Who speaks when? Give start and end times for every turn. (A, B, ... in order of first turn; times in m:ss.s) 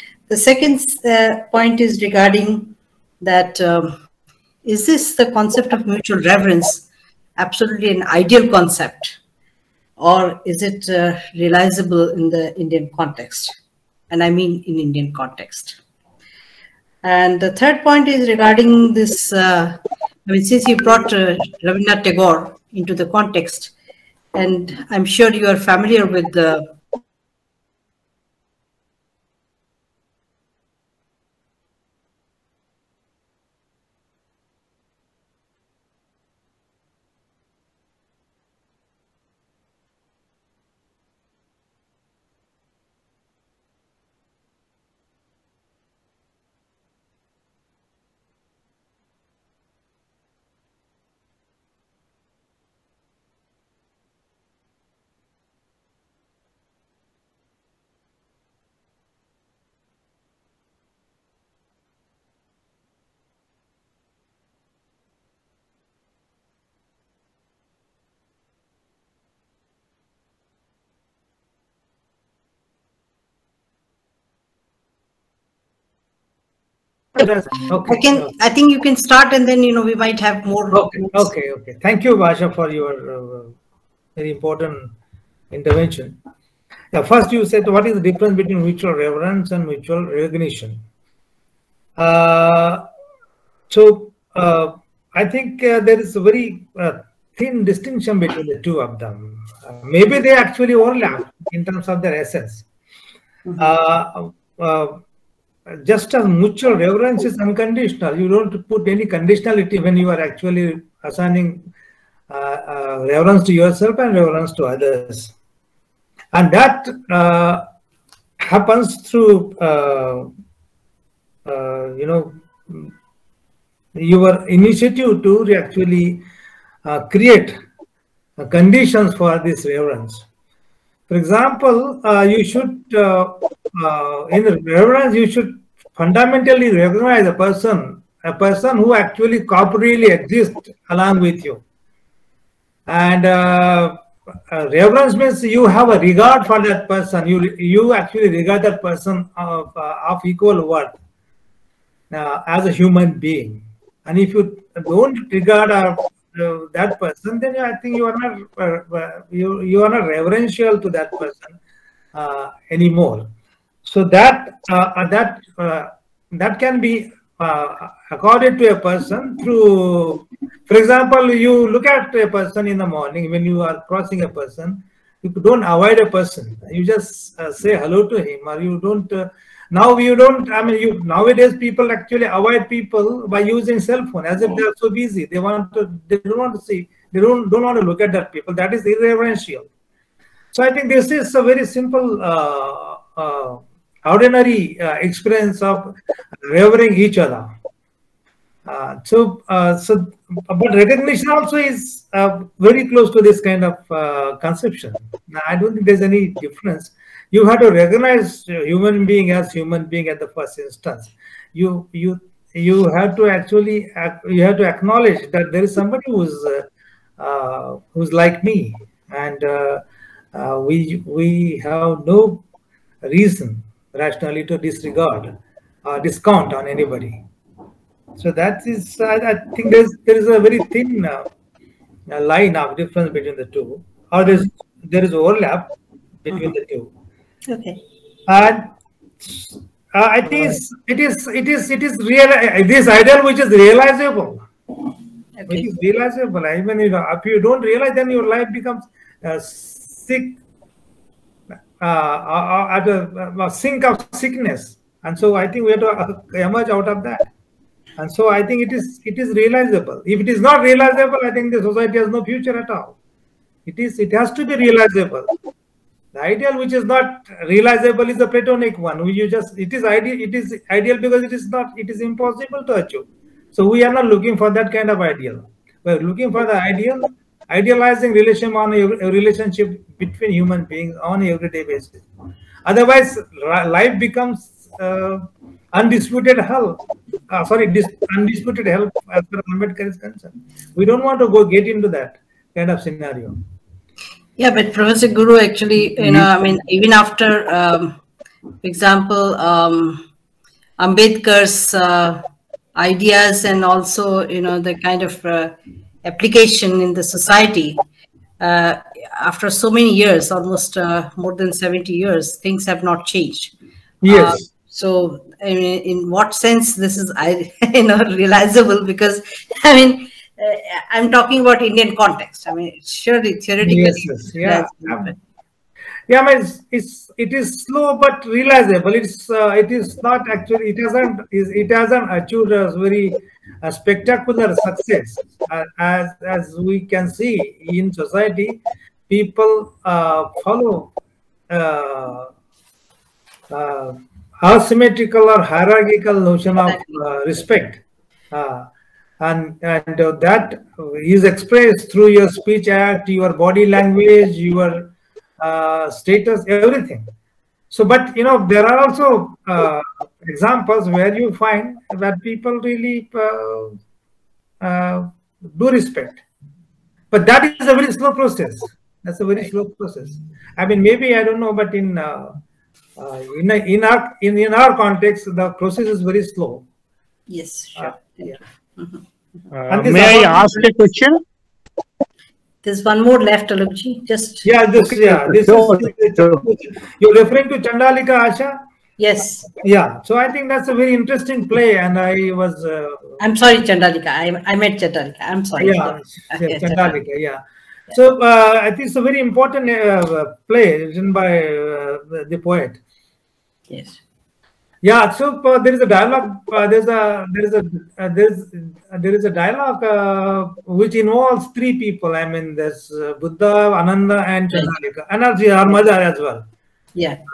0:00.3-0:04.0 A
0:04.6-0:06.8 A
0:07.4-0:09.2 A
0:10.0-0:13.6 A
0:14.1-0:15.8 A
0:17.0-0:23.7 A
0:24.3-0:26.8 A
1:17.2-1:18.3 B
1:17.8-1:21.3 A
1:20.7-1:23.5 B
1:24.2-1:24.9 B
1:25.5-1:26.2 B
1:26.9-1:30.8 B
1:32.0-1:32.8 B
1:33.7-1:42.6 B
1:43.6-1:45.0 B
1:45.7-1:51.6 B
1:52.3-1:55.3 B
1:56.3-1:57.7 B
1:58.4-2:00.3 B
2:01.4-2:02.9 B
2:04.0-2:06.2 B
2:06.8-2:07.6 B
2:08.4-2:10.2 B
2:11.1-2:21.6 B
2:22.9-2:31.0 B
2:32.1-2:41.5 B
2:42.1-2:43.3 B
2:43.8-3:09.7 B
3:10.5-3:17.5 B
3:18.6-3:36.7 B
3:37.2-3:39.8 B
3:40.3-3:42.4 B
3:43.0-3:47.2 B
3:48.2-3:51.3 B
3:52.1-3:55.7 B
3:56.2-3:56.9 B
3:57.4-3:57.8 A
3:58.3-3:58.7 B
3:59.2-4:04.4 B
4:05.4-4:05.7 A
4:05.5-4:10.4 B
4:11.8-4:17.3 B
4:18.0-4:22.9 B
4:23.6-4:25.3 B
4:26.1-4:42.0 B
4:42.6-4:53.4 B
4:54.4-4:58.0 A
4:58.6-5:00.0 A
5:00.8-5:02.2 A
5:02.8-5:07.8 A
5:08.4-5:13.5 A
5:14.0-5:14.4 B
5:14.1-5:25.2 A
5:23.6-5:25.1 B
5:26.1-5:40.9 B
5:41.5-5:42.3 B
5:43.5-5:47.8 B
5:46.6-5:47.0 A
5:48.3-5:48.7 B
5:49.2-5:57.1 B
5:57.7-6:03.8 B
6:04.6-6:06.2 B
6:07.1-6:12.4 B
6:13.0-6:16.6 B
6:17.3-6:19.0 A
6:17.8-6:18.4 B
6:19.5-6:21.2 C
6:19.7-6:20.6 B
6:22.6-6:24.5 A
6:24.4-6:28.6 B
6:24.9-6:26.4 C
6:29.0-6:29.5 A
6:29.6-6:33.2 B
6:33.2-6:37.0 A
6:35.6-6:37.4 B
6:37.9-6:42.8 B
6:43.7-6:44.0 A
6:44.8-6:56.4 B
6:57.0-6:57.2 A